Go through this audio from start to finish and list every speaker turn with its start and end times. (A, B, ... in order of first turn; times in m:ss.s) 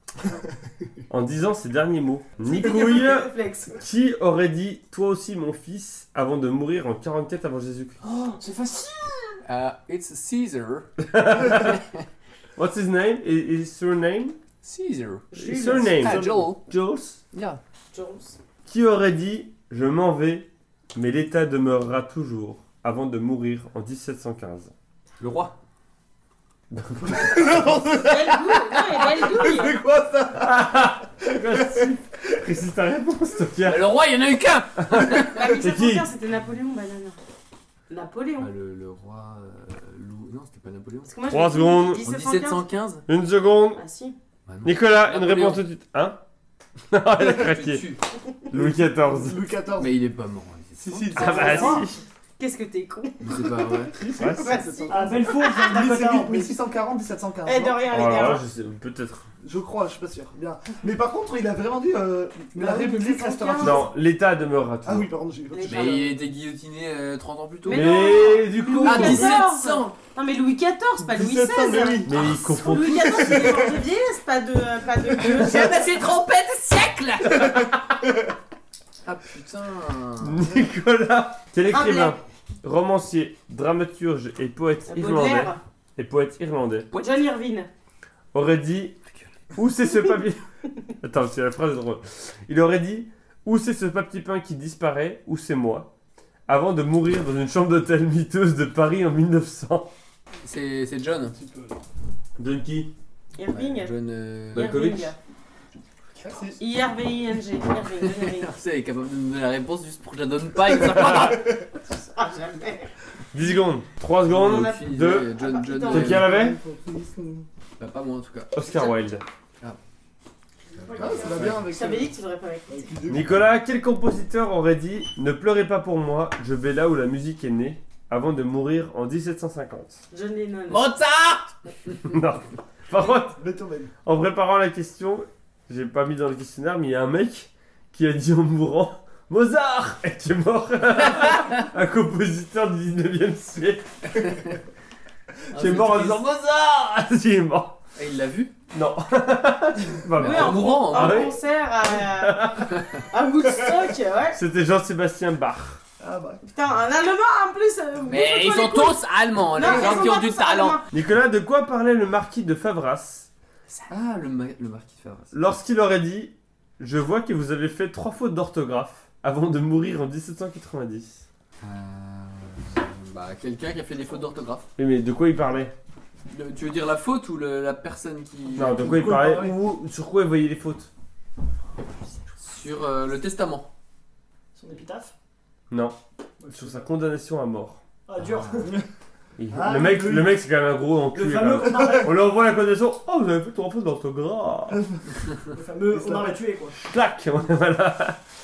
0:01.1-0:08.0 A
0:02.4-0:03.8 B
0:08.0-0:09.4 C
0:09.4-0:10.9 D
0:11.0-0:11.8 A
0:11.4-0:12.0 D
0:12.6-0:14.4 A
0:14.6-0:15.3 D
0:15.3-0:16.1 B
0:15.3-0:17.2 A
0:15.9-0:16.6 D
0:17.3-0:17.6 D
0:17.9-0:18.4 B
0:18.6-0:24.7 A
0:25.2-0:25.5 D
0:26.7-0:27.9 A
0:27.3-0:30.7 E
0:27.9-0:29.8 B
0:30.4-0:33.9 A
0:31.3-0:31.9 E
0:33.6-0:35.4 D
0:34.8-0:36.1 A
0:35.3-0:37.2 B
0:37.9-0:38.5 B
0:38.4-0:41.4 D
0:41.0-0:42.6 B
0:41.3-0:42.0 A
0:41.9-0:43.0 D
0:43.1-0:43.8 A
0:43.7-0:44.2 B
0:44.5-0:45.6 D
0:44.6-0:46.2 A
0:46.9-0:47.9 A
0:47.2-0:48.0 D
0:48.5-0:49.4 A
0:48.5-0:50.0 E
0:49.8-0:51.7 D
0:50.8-0:51.8 E
0:51.1-0:52.0 A
0:51.2-0:51.8 C
0:51.4-0:51.8 B
0:52.4-0:55.9 B
0:53.2-0:53.9 D
0:53.9-0:57.9 E
0:54.2-0:54.8 A
0:54.9-0:56.5 C
0:57.4-0:58.5 B
0:57.9-0:59.2 A
0:59.4-1:03.9 E
1:02.5-1:03.0 C
1:02.6-1:03.8 B
1:03.6-1:05.1 A
1:04.8-1:06.1 E
1:05.5-1:06.1 B
1:05.6-1:08.2 D
1:07.6-1:15.8 B
1:07.7-1:09.4 A
1:08.8-1:09.9 D
1:11.0-1:12.4 E
1:12.0-1:13.6 A
1:13.2-1:13.8 E
1:15.2-1:17.7 D
1:17.4-1:17.8 A
1:19.0-1:20.4 D
1:20.2-1:26.9 A
1:21.6-1:22.2 B
1:24.9-1:25.6 B
1:26.9-1:27.7 B
1:28.3-1:29.0 A
1:29.5-1:30.4 A
1:31.0-1:35.9 A
1:36.5-1:39.9 A
1:40.4-1:41.4 D
1:41.3-1:41.8 E
1:42.4-1:42.9 A
1:43.3-1:43.9 B
1:43.5-1:44.8 D
1:44.5-1:45.1 A
1:44.5-1:45.2 B
1:46.2-1:46.6 D
1:46.2-1:46.6 E
1:46.6-1:48.5 B
1:48.0-1:51.5 D
1:51.1-1:52.9 B
1:53.3-1:56.6 A
1:54.3-1:56.3 D
1:54.4-1:56.2 B
1:56.0-1:57.5 E
1:57.8-1:58.5 D
1:58.5-1:59.2 A
2:00.7-2:01.6 C
2:00.8-2:01.7 D
2:00.9-2:02.1 E
2:01.6-2:02.9 B
2:02.7-2:03.4 E
2:03.1-2:10.0 A
2:10.1-2:10.9 B
2:10.7-2:12.0 D
2:12.0-2:13.4 A
2:13.4-2:13.9 E
2:14.0-2:24.3 A
2:24.2-2:24.6 D
2:25.5-2:26.3 D
2:25.5-2:27.8 A
2:28.0-2:28.5 D
2:28.7-2:31.4 A
2:30.1-2:31.3 D
2:30.2-2:34.4 B
2:31.9-2:32.8 A
2:34.3-2:35.8 A
2:36.0-2:36.4 E
2:36.4-2:39.0 B
2:38.1-2:40.8 D
2:39.5-2:40.8 B
2:40.9-2:43.3 A
2:43.9-2:45.4 D
2:45.3-2:51.2 A
2:51.6-2:54.7 D
2:54.8-2:55.7 A
2:56.3-2:58.9 D
2:58.6-3:00.9 A
2:58.8-2:59.6 E
3:02.4-3:03.7 D
3:04.5-3:05.1 C
3:05.7-3:06.0 A
3:06.4-3:06.8 C
3:06.5-3:07.8 A
3:08.0-3:08.8 C
3:09.4-3:14.8 A
3:09.5-3:10.3 E
3:11.1-3:12.3 C
3:15.5-3:16.8 C
3:15.9-3:16.4 E
3:16.7-3:18.2 A